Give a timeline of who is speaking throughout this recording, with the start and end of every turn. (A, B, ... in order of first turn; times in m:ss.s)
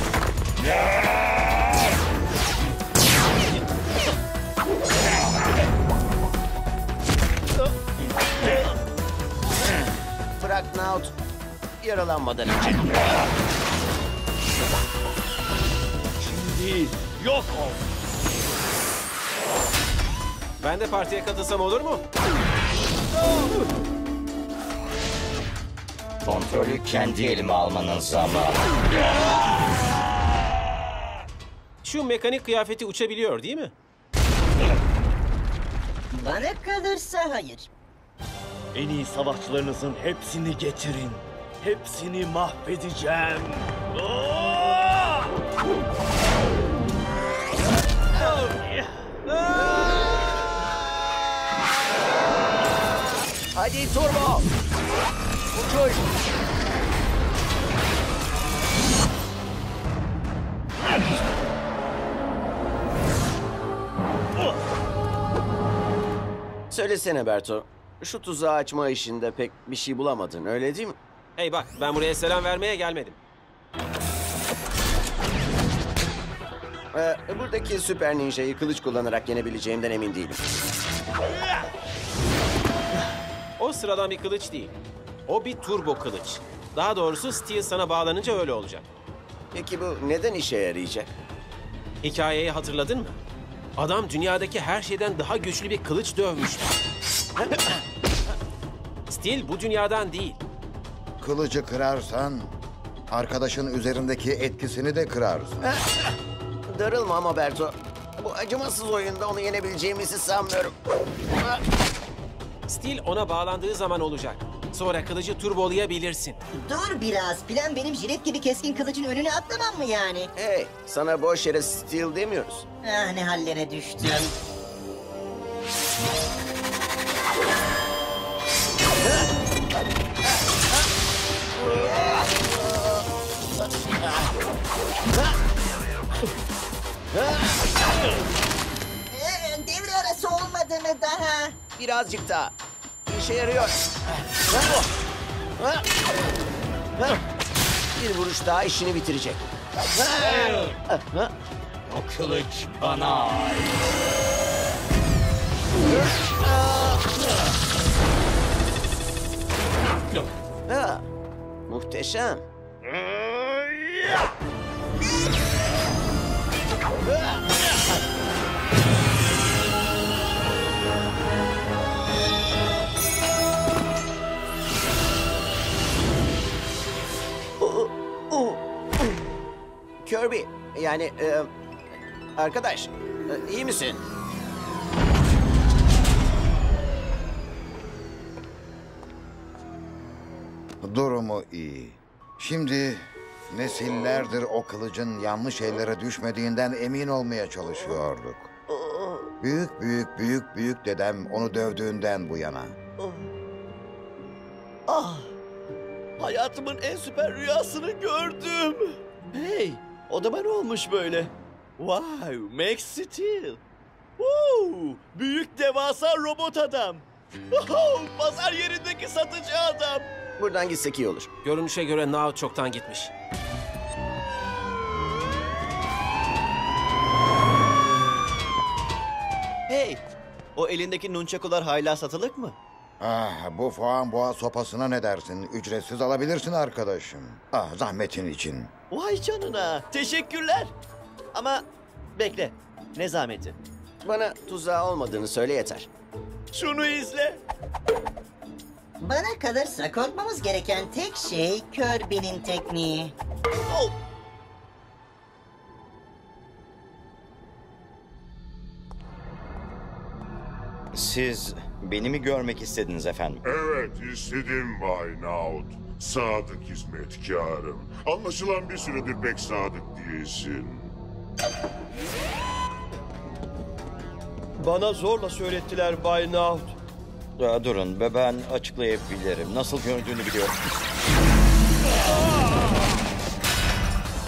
0:10.4-0:11.1 A
0:11.8-0:12.8 A
0:16.2-0:17.7 B
0:20.6-0:22.0 C
0:26.2-0:28.6 D
0:31.8-0:33.7 C
0:36.1-0:37.7 E
0:38.7-0:45.2 B
0:48.3-0:49.0 B
0:49.8-0:50.2 A
0:53.5-0:54.4 A
0:55.5-0:56.1 A
1:06.7-1:11.0 A
1:11.4-1:13.2 C
1:16.9-1:20.4 A
1:23.6-1:24.7 C
1:25.3-1:28.9 C
1:29.5-1:31.1 A
1:32.0-1:33.2 C
1:33.8-1:36.7 C
1:37.4-1:37.7 A
1:39.1-1:40.4 C
1:41.2-1:42.5 F
1:43.1-1:45.6 F
1:46.7-1:50.7 A
1:51.3-1:51.6 A
1:52.7-1:56.4 C
1:56.5-2:00.3 E
2:00.4-2:02.6 A
2:02.8-2:04.3 E
2:11.6-2:12.7 A
2:17.1-2:17.6 A
2:19.1-2:21.6 E
2:21.8-2:22.5 A
2:23.1-2:23.8 A
2:24.5-2:24.8 A
2:25.6-2:25.8 A
2:28.0-2:31.3 A
2:31.9-2:33.8 D
2:35.9-2:37.0 A
2:40.7-2:41.0 A
2:41.7-2:42.4 A
2:57.6-2:59.1 A
3:00.0-3:01.5 A
3:02.4-3:04.0 A
3:10.8-3:18.5 F
3:18.7-3:19.3 G
3:19.4-3:22.8 F
3:24.9-3:25.3 G
3:26.2-3:33.6 G
3:34.2-3:40.1 G
3:40.4-3:41.3 A
3:41.4-3:43.1 C
3:49.7-3:50.0 G
3:50.6-3:52.6 G
3:53.0-3:58.7 F
3:58.9-4:00.7 G
4:01.3-4:01.6 G
4:02.2-4:03.6 G
4:04.0-4:05.9 A
4:06.5-4:07.4 G
4:09.0-4:13.1 E
4:13.6-4:13.9 G
4:20.9-4:23.4 D
4:23.4-4:30.9 H
4:34.6-4:36.8 I
4:37.4-4:40.6 D